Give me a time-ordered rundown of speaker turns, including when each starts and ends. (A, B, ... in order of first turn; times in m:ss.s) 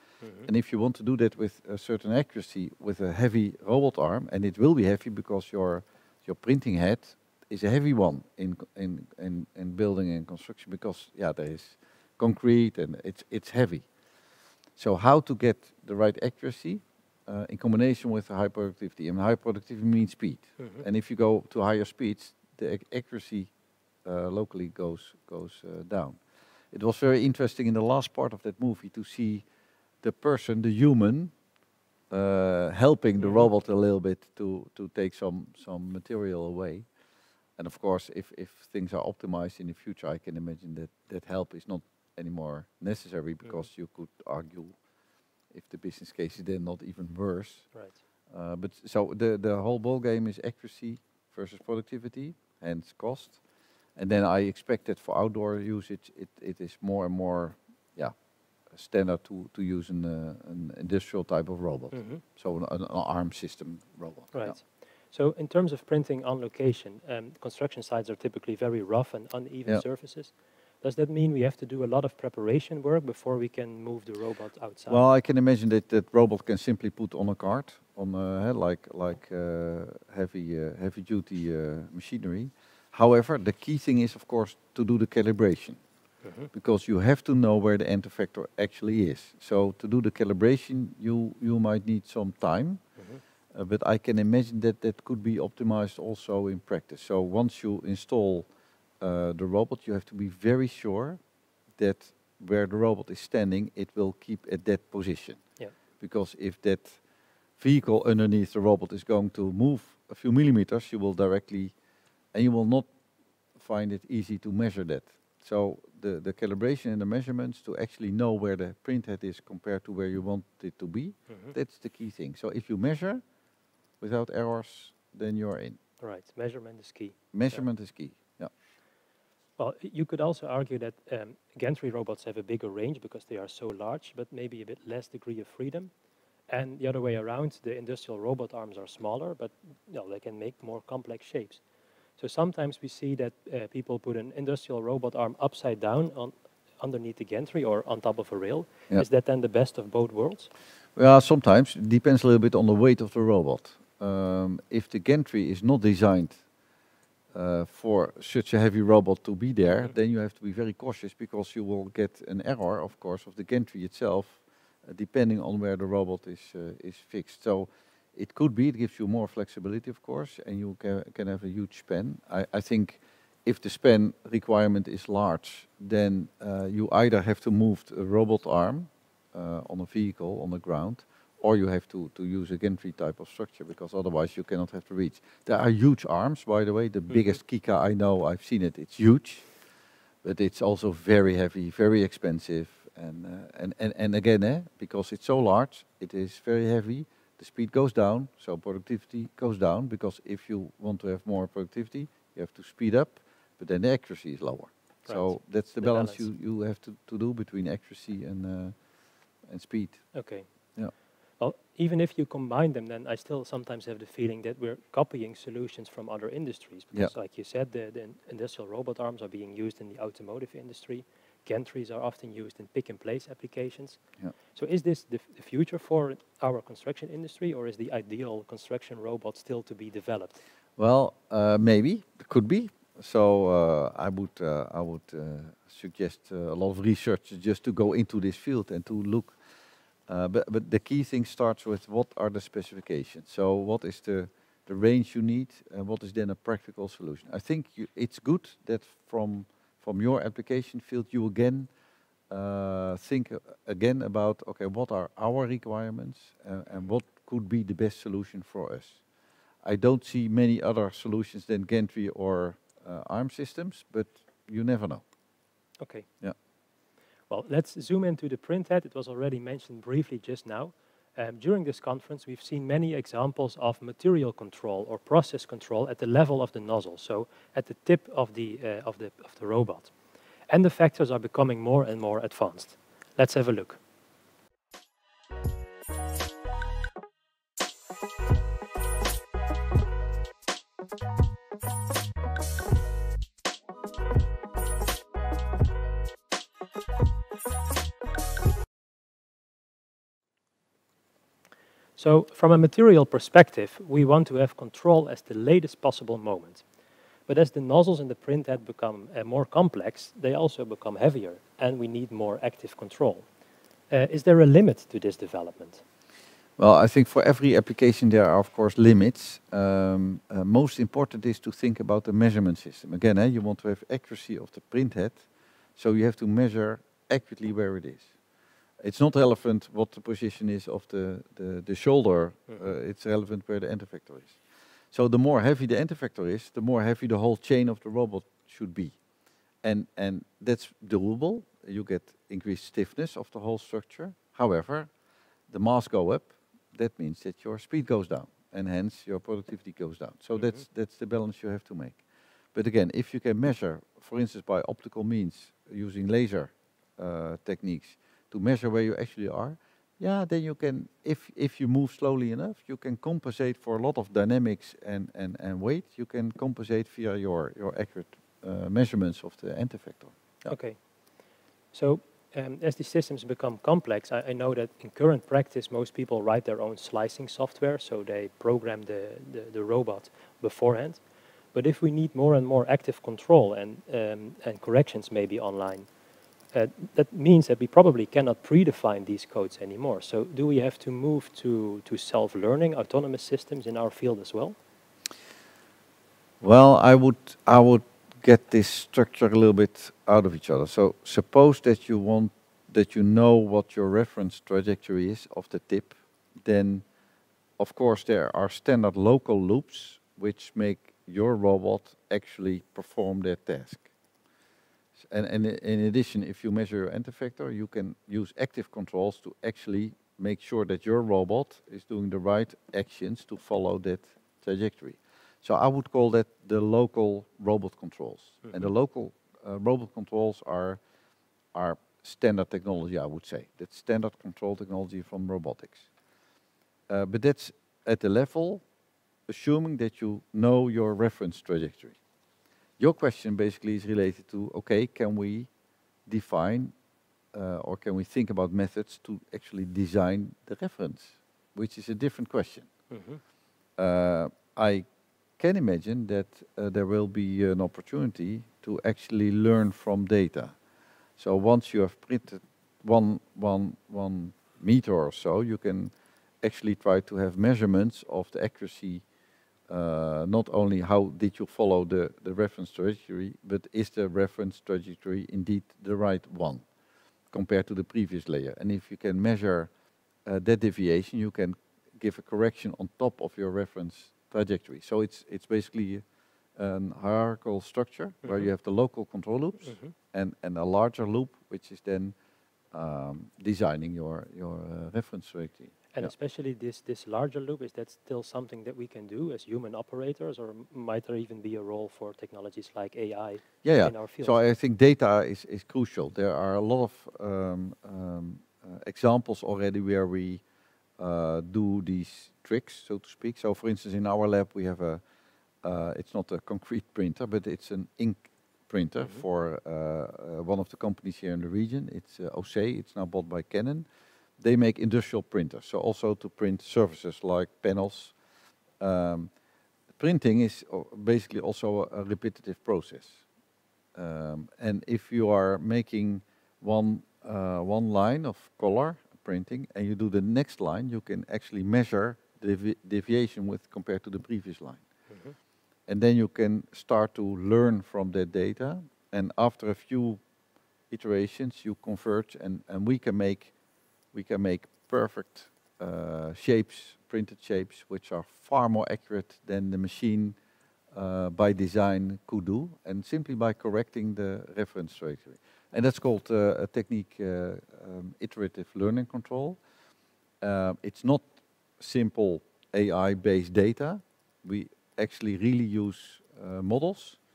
0:00.2-0:00.5 A
0:00.4-0:13.9 B
0:14.8-0:23.5 B
0:20.6-0:20.8 A
0:24.0-0:26.2 B
0:26.7-0:29.4 B
0:30.0-0:31.3 B
0:32.1-0:36.9 B
0:33.2-0:33.5 A
0:37.6-0:44.8 B
0:45.5-0:47.7 B
0:48.3-0:53.4 B
0:54.0-0:58.2 B
0:58.7-1:04.6 B
1:01.9-1:02.2 A
1:04.3-1:15.0 A
1:14.9-1:25.8 B
1:26.2-1:26.5 A
1:26.5-1:32.8 B
1:33.0-1:33.2 A
1:33.5-1:38.5 B
1:39.0-1:41.2 B
1:41.8-1:45.4 B
1:46.0-1:47.0 B
1:47.6-1:51.7 B
1:52.3-1:52.9 B
1:53.6-2:03.2 B
2:01.3-2:01.5 A
2:04.0-2:05.8 B
2:06.0-2:07.6 A
2:07.3-2:08.5 B
2:09.6-2:15.9 A
2:16.5-2:21.6 A
2:22.2-2:30.5 A
2:31.0-2:36.4 B
2:37.3-3:09.5 B
3:07.1-3:07.4 A
3:10.2-3:28.8 B
3:25.1-3:26.2 A
3:29.4-3:30.2 B
3:30.1-3:30.5 A
3:31.4-3:44.0 A
3:44.5-3:50.4 A
3:50.8-3:59.4 B
4:00.1-4:11.7 B
4:12.3-4:19.0 B
4:19.6-4:25.0 B
4:25.8-4:26.1 A
4:27.3-4:39.9 A
4:40.5-4:43.8 A
5:02.0-5:06.6 A
5:07.3-5:13.3 A
5:13.9-5:15.8 A
5:16.6-5:25.2 B
5:25.8-5:28.1 B
5:28.8-5:34.4 B
5:34.9-5:39.0 B
5:39.6-5:44.9 B
5:45.5-6:10.5 B
6:10.5-6:10.8 A
6:11.7-6:21.0 A
6:21.5-6:25.9 A
6:26.5-6:34.6 A
6:36.4-6:46.8 B
6:47.6-6:53.9 B
6:55.0-7:10.8 B
7:11.5-7:15.9 B
7:16.9-7:18.6 B
7:19.3-7:22.0 B
7:22.8-7:25.5 B
7:26.0-7:26.7 B
7:27.3-7:32.7 B
7:32.9-7:33.2 A
7:33.8-7:34.9 B
7:35.4-7:40.6 B
7:41.2-7:49.0 B
7:49.7-7:56.6 B
7:57.3-7:59.7 B
8:00.2-8:06.0 B
8:06.6-8:12.1 B
8:09.6-8:09.9 A
8:12.7-8:16.1 B
8:15.9-8:24.4 A
8:23.6-8:30.4 B
8:31.0-8:35.0 B
8:35.6-8:43.9 B
8:44.4-8:48.2 B
8:48.8-8:49.3 B
8:50.0-8:53.2 B
8:53.9-9:04.8 B
9:05.1-9:05.4 A
9:05.9-9:10.2 B
9:10.9-9:13.5 B
9:14.1-9:20.4 B
9:20.9-9:29.6 B
9:30.4-9:31.3 B
9:31.8-9:37.2 B